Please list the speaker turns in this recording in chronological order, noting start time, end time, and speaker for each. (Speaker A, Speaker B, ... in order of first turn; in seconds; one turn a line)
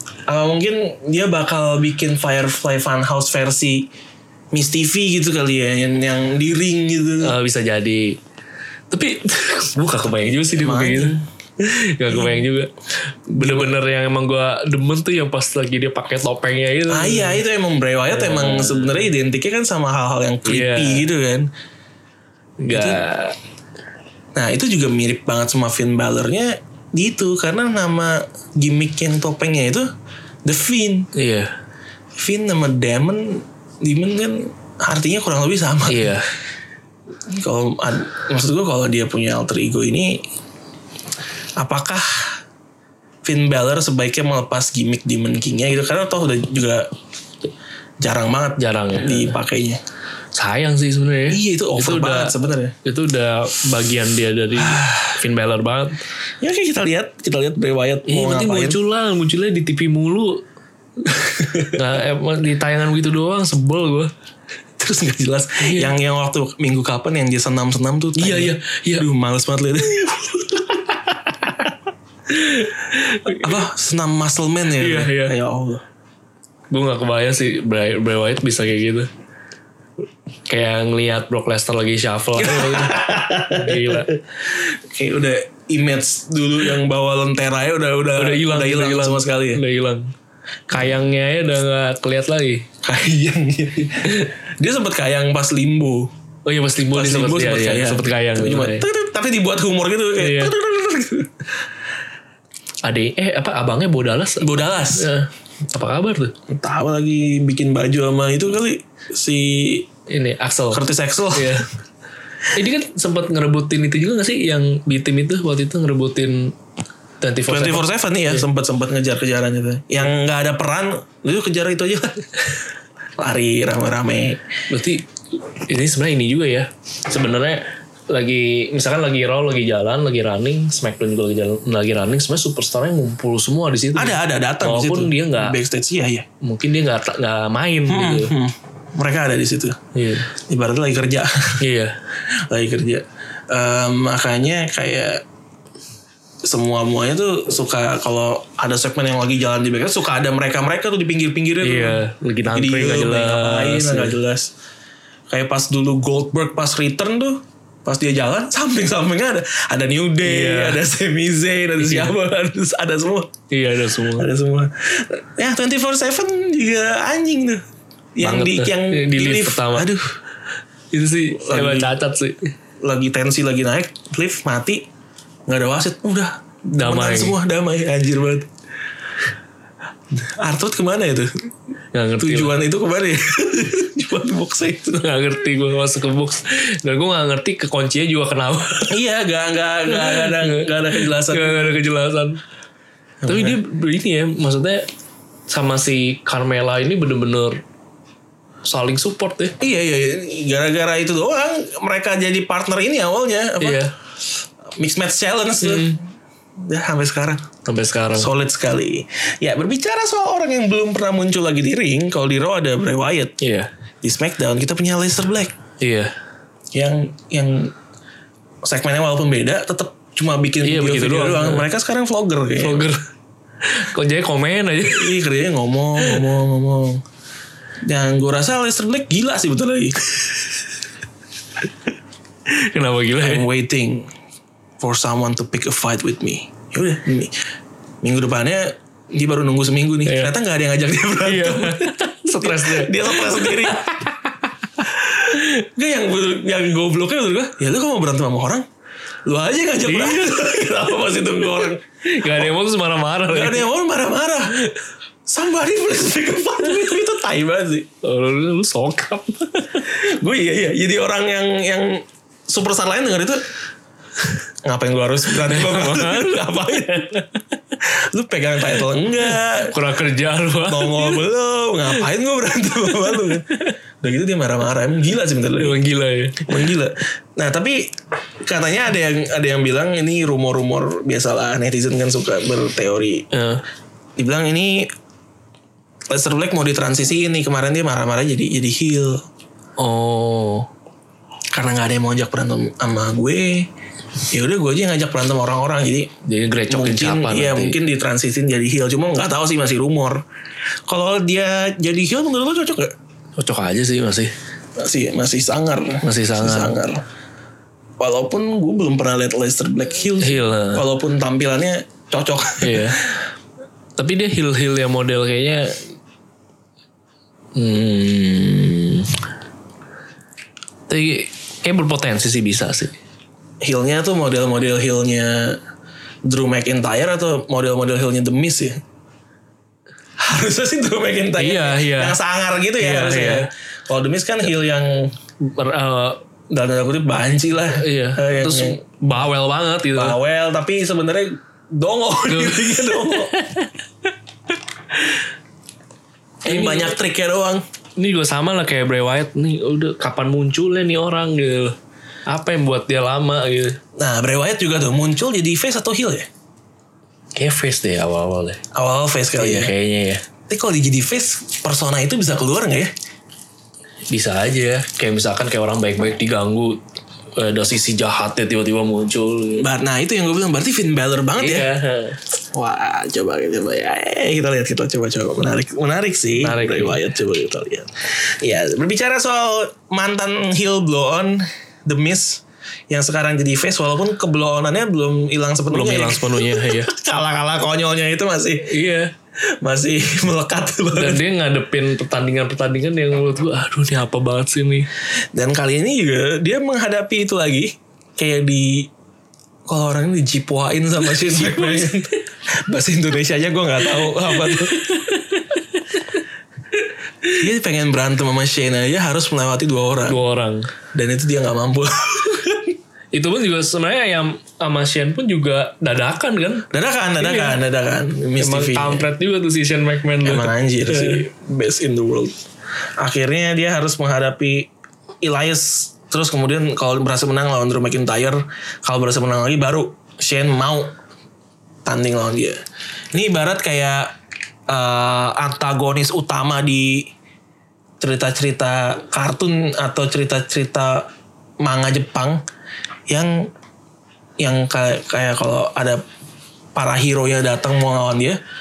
Speaker A: 0.3-3.9
Speaker A: 4.5-7.3
Speaker B: 7.2-8.2
Speaker B: 8.9-17.4
Speaker A: 10.5-11.2
Speaker A: 12.1-12.4
Speaker A: 13.4-13.8
Speaker A: 16.9-21.5
Speaker B: 18.1-19.0
Speaker B: 20.4-21.1
Speaker B: 22.6-23.4
Speaker A: 22.7-23.0
Speaker A: 24.3-29.9
Speaker A: 30.4-31.1
Speaker B: 31.1-31.5
Speaker A: 32.1-36.2
Speaker B: 35.9-36.3
Speaker A: 37.3-40.2
Speaker A: 41.6-42.4
Speaker A: 43.2-46.9
Speaker A: 48.0-49.8
Speaker B: 48.6-49.4
Speaker B: 50.3-56.0
Speaker A: 51.3-52.7
Speaker A: 54.6-55.2
Speaker A: 56.4-58.8
Speaker B: 58.1-60.4
Speaker B: 61.0-64.1
Speaker A: 64.8-70.6
Speaker B: 65.6-65.9
Speaker B: 68.2-69.0
Speaker B: 72.3-73.6
Speaker A: 73.3-75.8
Speaker B: 74.8-75.3
Speaker B: 76.7-79.1
Speaker B: 80.5-84.2
Speaker A: 82.3-89.6
Speaker B: 88.2-90.1
Speaker B: 90.7-92.7
Speaker A: 92.8-96.1
Speaker B: 94.0-94.3
Speaker B: 96.5-98.8
Speaker A: 96.9-101.4
Speaker B: 100.2-100.5
Speaker B: 102.8-106.3
Speaker A: 104.4-105.1
Speaker A: 106.5-109.9
Speaker B: 110.1-111.7
Speaker A: 110.7-111.6
Speaker B: 112.5-116.5
Speaker B: 117.2-118.4
Speaker A: 117.5-122.2
Speaker A: 123.2-124.4
Speaker B: 124.7-135.6
Speaker A: 133.9-136.2
Speaker B: 136.4-138.3
Speaker A: 137.9-139.8
Speaker B: 139.9-140.3
Speaker A: 140.3-141.6
Speaker B: 141.6-141.9
Speaker A: 142.3-145.2
Speaker A: 146.4-154.5
Speaker B: 151.6-154.2
Speaker A: 155.3-163.3
Speaker B: 160.2-160.8
Speaker B: 161.8-162.1
Speaker B: 163.5-164.3
Speaker A: 164.1-167.6
Speaker A: 168.2-170.2
Speaker B: 168.2-169.9
Speaker B: 170.9-172.5
Speaker A: 171.3-171.9
Speaker A: 172.8-174.8
Speaker A: 175.5-178.5
Speaker B: 176.7-177.4
Speaker A: 180.1-181.3
Speaker B: 181.9-182.6
Speaker A: 182.2-185.1
Speaker B: 185.0-189.0
Speaker A: 188.9-191.8
Speaker B: 189.9-192.4
Speaker A: 193.2-193.6
Speaker B: 193.2-194.9
Speaker B: 195.5-197.6
Speaker B: 198.6-199.6
Speaker A: 199.6-203.9
Speaker B: 203.6-203.9
Speaker A: 204.8-206.0
Speaker B: 205.6-206.0
Speaker A: 206.6-207.4
Speaker B: 207.6-208.3
Speaker A: 208.1-213.3
Speaker B: 213.4-213.7
Speaker A: 214.0-215.5
Speaker B: 215.8-216.1
Speaker A: 216.7-217.7
Speaker A: 218.6-222.9
Speaker B: 220.6-221.7
Speaker B: 222.6-223.0
Speaker B: 223.6-225.2
Speaker A: 224.9-227.0
Speaker A: 227.8-230.0
Speaker B: 232.5-233.5
Speaker A: 233.2-234.1
Speaker A: 234.8-237.3
Speaker A: 238.0-244.0
Speaker B: 240.0-240.3
Speaker B: 241.2-244.4
Speaker A: 244.8-248.7
Speaker A: 249.2-252.5
Speaker B: 249.8-250.6
Speaker B: 252.0-253.7
Speaker A: 253.3-254.6
Speaker A: 255.2-257.9
Speaker B: 258.0-259.9
Speaker A: 259.9-263.4
Speaker A: 264.6-267.1
Speaker B: 265.4-267.4
Speaker A: 267.8-269.8
Speaker B: 269.5-271.2
Speaker A: 270.7-273.4
Speaker B: 272.9-273.7
Speaker A: 274.0-275.8
Speaker B: 275.6-276.7
Speaker A: 276.4-283.3
Speaker B: 283.3-283.6
Speaker A: 284.2-284.9
Speaker A: 286.1-289.2
Speaker B: 289.8-290.7
Speaker A: 291.5-293.7
Speaker A: 294.3-296.1
Speaker B: 296.2-297.8
Speaker A: 296.7-300.2
Speaker A: 300.9-302.9
Speaker B: 303.4-304.3
Speaker A: 304.8-307.0
Speaker B: 306.0-306.8
Speaker A: 308.0-313.0
Speaker B: 310.2-310.8
Speaker B: 312.6-313.1
Speaker B: 314.0-315.9
Speaker B: 317.5-319.1
Speaker B: 320.9-322.9
Speaker A: 323.6-325.6
Speaker A: 326.2-328.8
Speaker A: 330.2-335.1
Speaker B: 331.4-332.2
Speaker B: 332.8-333.5
Speaker B: 335.4-336.2
Speaker A: 336.5-338.8
Speaker B: 337.7-340.2
Speaker A: 339.9-343.3
Speaker B: 342.3-343.7
Speaker A: 346.4-347.6
Speaker B: 346.4-346.9
Speaker B: 348.0-351.8
Speaker B: 352.3-353.8
Speaker A: 354.0-356.3
Speaker B: 357.3-358.6
Speaker A: 358.7-359.7
Speaker B: 359.4-360.2
Speaker A: 360.5-362.9
Speaker B: 364.1-366.8
Speaker B: 367.4-369.7
Speaker A: 369.6-371.7
Speaker B: 371.4-372.2
Speaker A: 372.5-388.7
Speaker B: 376.4-377.0
Speaker B: 385.7-386.9
Speaker B: 388.6-389.1
Speaker A: 389.6-391.2
Speaker B: 390.9-394.9
Speaker A: 395.3-398.9
Speaker A: 399.6-405.0
Speaker B: 401.0-402.1
Speaker B: 403.9-406.2
Speaker B: 406.8-407.4
Speaker A: 407.4-410.2
Speaker B: 410.1-410.7
Speaker A: 410.9-412.8
Speaker B: 413.1-416.6
Speaker A: 416.7-419.1
Speaker B: 417.2-417.6
Speaker B: 418.4-421.2
Speaker A: 420.2-422.3
Speaker A: 423.0-424.7
Speaker A: 425.2-430.9
Speaker A: 431.8-432.6
Speaker A: 433.1-434.1
Speaker A: 434.7-437.1
Speaker A: 438.0-441.1
Speaker A: 441.6-442.4
Speaker A: 443.1-443.5
Speaker A: 444.4-446.0
Speaker A: 446.7-448.4